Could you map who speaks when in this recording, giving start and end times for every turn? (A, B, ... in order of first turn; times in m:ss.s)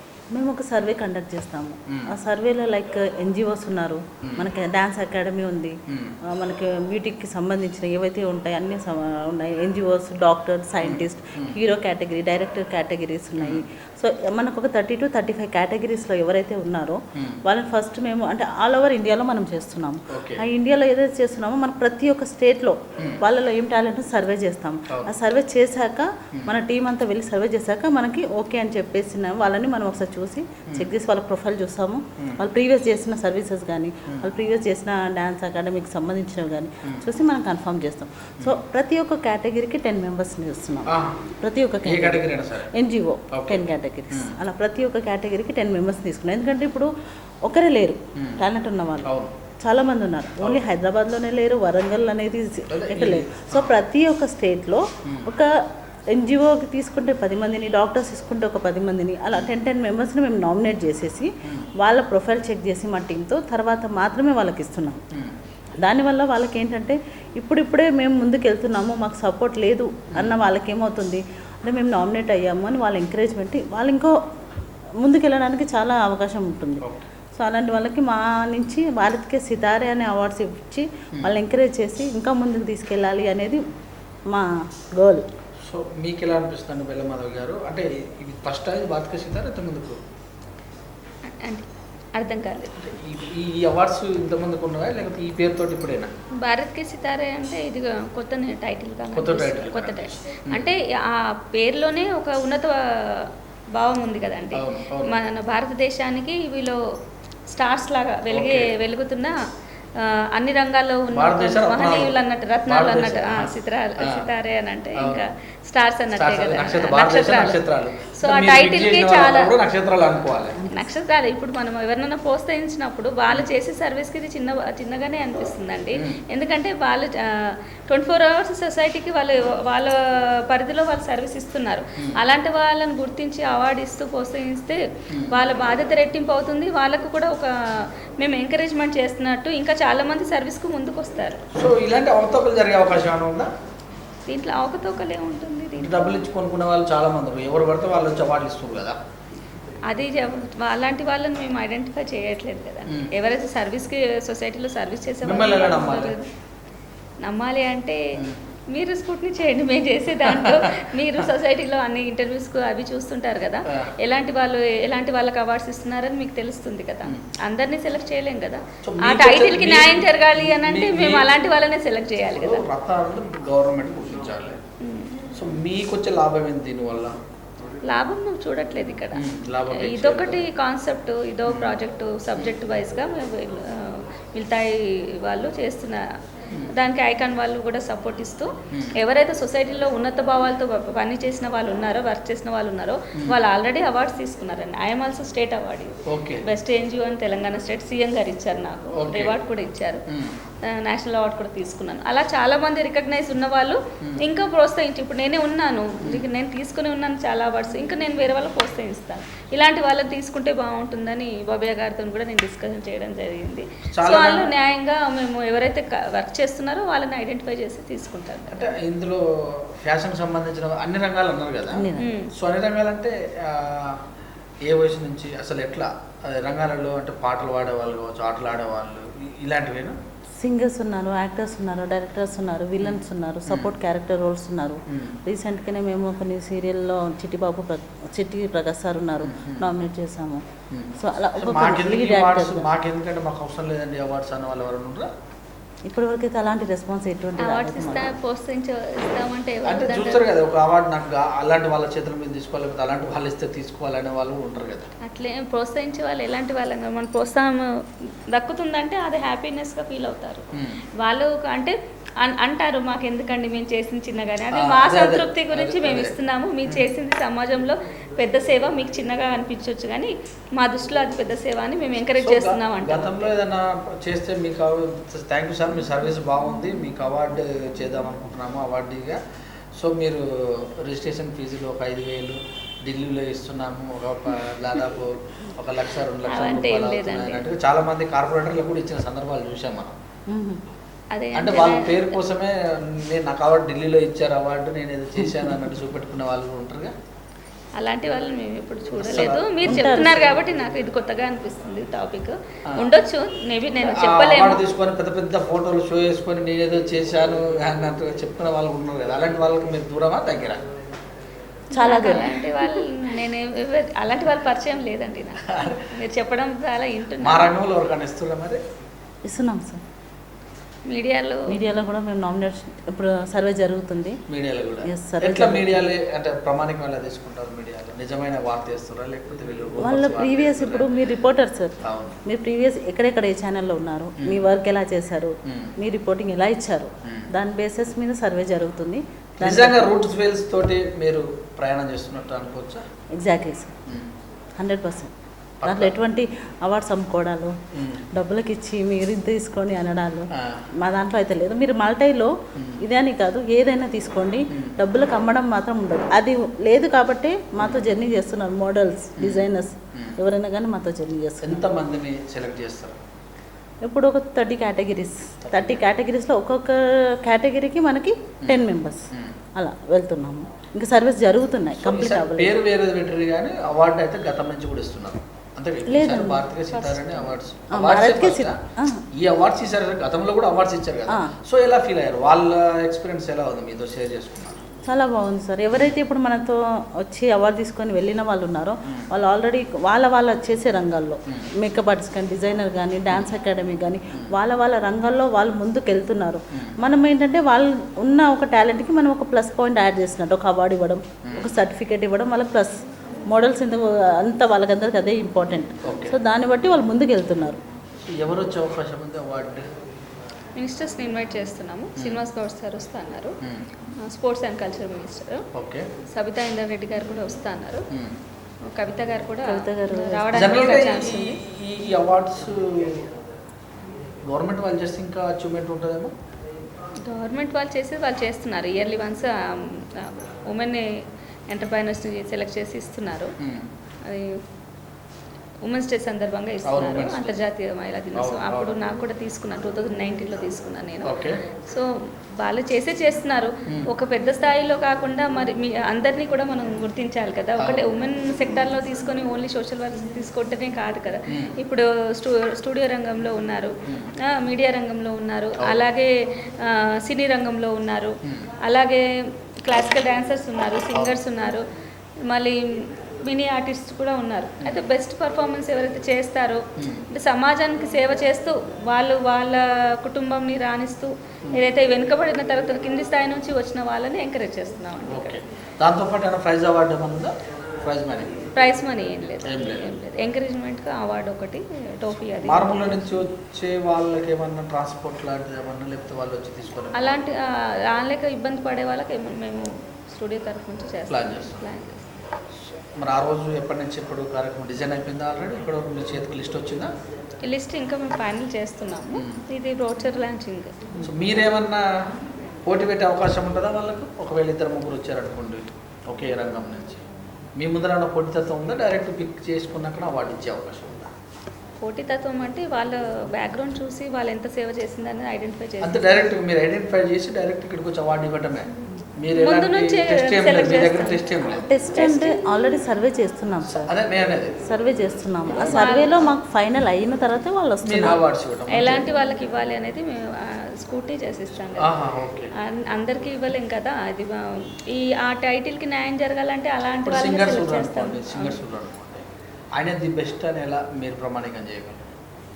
0:00.3-0:05.7 A
0:01.9-0:02.1 B
0:04.2-0:04.5 B
0:05.9-0:06.2 B
0:06.3-0:46.9 A
0:10.8-0:11.6 B
0:13.4-0:13.6 B
0:20.1-0:20.4 B
0:32.2-0:32.4 B
0:40.9-0:41.3 B
0:41.8-0:42.7 B
0:43.3-0:44.4 B
0:47.4-0:49.1 A
0:48.2-0:48.4 B
0:49.0-0:49.4 B
0:49.6-0:55.5 A
0:52.7-0:53.7 B
0:55.0-0:55.3 B
0:56.1-1:05.0 A
1:05.8-1:14.1 A
1:10.1-1:10.4 B
1:15.0-1:16.8 A
1:17.4-1:23.6 A
1:24.3-1:25.2 A
1:25.6-1:30.0 B
1:31.3-1:32.8 C
1:32.8-1:36.1 B
1:36.4-1:46.8 C
1:39.1-1:40.7 B
1:44.6-1:45.1 B
1:47.5-1:49.4 C
1:48.3-1:48.7 B
1:50.0-1:57.6 C
1:51.1-1:52.1 B
1:52.7-1:54.3 B
1:55.0-1:55.2 B
1:56.1-2:00.6 B
1:58.1-1:59.5 C
2:00.5-2:00.9 A
2:00.7-2:10.0 C
2:10.5-2:21.4 C
2:15.1-2:15.4 B
2:21.5-2:23.5 B
2:24.3-2:26.2 C
2:25.8-2:29.0 B
2:29.9-2:36.3 C
2:35.2-2:36.2 B
2:37.2-2:38.0 C
2:38.7-2:52.6 C
2:40.3-2:40.7 B
2:48.8-2:51.3 B
2:52.3-2:54.6 B
2:54.8-2:55.1 C
2:55.3-2:57.2 B
2:57.8-3:06.0 C
2:59.2-3:00.4 B
3:01.5-3:01.8 B
3:06.7-3:15.9 C
3:16.1-3:16.4 B
3:16.4-3:20.0 C
3:18.9-3:19.3 B
3:20.1-3:20.3 B
3:20.6-3:38.7 C
3:26.0-3:26.3 B
3:33.9-3:34.5 B
3:38.6-3:41.8 B
3:41.7-3:42.1 A
3:42.0-3:42.3 C
3:42.4-3:44.0 B
3:44.7-3:50.0 B
3:50.4-4:00.4 A
3:52.8-3:53.8 B
3:54.9-3:55.2 B
3:59.2-3:59.7 B
4:00.7-4:05.1 B
4:01.0-4:02.7 A
4:05.9-4:08.1 A
4:07.4-4:10.3 C
4:09.6-4:14.9 B
4:15.0-4:17.7 C
4:18.3-4:20.4 C
4:20.6-4:20.8 B
4:21.0-4:33.3 C
4:24.6-4:26.9 B
4:32.2-4:39.2 B
4:39.8-4:50.0 B
4:46.3-4:47.4 C
4:50.3-4:50.6 A
4:51.1-4:52.2 C
4:51.4-4:56.9 B
4:55.2-4:55.8 A
4:57.8-5:04.6 C
4:59.0-5:00.2 B
4:59.6-5:00.3 A
5:03.8-5:10.6 B
5:11.7-5:12.5 A
5:11.7-5:17.5 C
5:15.5-5:15.8 B
5:17.2-5:18.6 B
5:19.3-5:19.8 A
5:20.9-5:21.5 C
5:21.5-5:24.2 A
5:24.3-5:30.9 B
5:24.8-5:25.9 A
5:29.8-5:31.7 A
5:31.8-5:32.2 B
5:32.2-5:39.9 A
5:34.2-5:34.5 B
5:39.4-5:42.8 B
5:43.2-5:43.7 A
5:44.6-5:45.1 A
5:45.6-5:46.0 B
5:45.6-5:47.5 A
5:47.8-5:48.0 B
5:48.1-5:50.3 A
5:50.3-5:50.6 B
5:50.8-6:01.6 A
5:52.6-5:52.8 B
5:57.6-5:57.9 B
5:59.2-6:00.2 B
6:01.4-6:03.0 B
6:03.8-6:09.0 A
6:05.5-6:05.8 B
6:08.4-6:09.4 B
6:09.6-6:12.6 A
6:11.8-6:18.6 B
6:15.9-6:17.0 A
6:17.7-6:19.0 A
6:19.1-6:24.6 B
6:21.1-6:21.3 A
6:24.9-6:47.6 A
6:41.2-6:41.5 B
6:45.8-6:46.2 B
6:48.0-6:49.7 B
6:50.6-6:53.3 C
6:54.0-6:55.4 C
6:55.5-6:55.9 B
6:56.1-6:57.8 C
6:58.7-7:01.4 C
6:59.4-7:00.4 A
7:00.3-7:03.1 B
7:04.3-7:06.1 B
7:07.0-7:10.8 C
7:11.5-7:13.3 C
7:13.4-7:13.7 B
7:14.0-7:14.4 C
7:15.6-7:21.8 C
7:16.6-7:17.4 B
7:18.1-7:18.7 B
7:21.0-7:21.3 B
7:22.4-7:38.1 C
7:27.6-7:27.8 B
7:38.6-7:39.0 C
7:39.6-7:41.6 C
7:42.2-7:55.4 C
7:44.6-7:44.9 B
7:46.8-7:47.0 B
7:55.1-7:58.3 B
7:58.5-8:03.2 C
7:59.4-7:59.9 B
8:02.4-8:07.1 B
8:06.9-8:12.1 C
8:11.1-8:11.7 B
8:12.6-8:16.9 B
8:17.4-8:20.8 C
8:19.2-8:19.4 B
8:21.0-8:21.9 B
8:22.6-8:27.0 B
8:27.6-8:31.1 B
8:31.8-8:36.3 C
8:35.8-8:41.7 B
8:39.3-8:41.2 C
8:41.5-8:43.9 A
8:41.9-8:42.4 C
8:43.7-8:44.6 B
8:44.6-8:48.2 A
8:45.6-8:46.3 C
8:47.8-8:49.1 B
8:48.7-8:51.9 C
8:51.8-8:52.5 B
8:52.6-8:58.6 C
8:57.0-8:59.2 B
8:59.8-9:02.1 B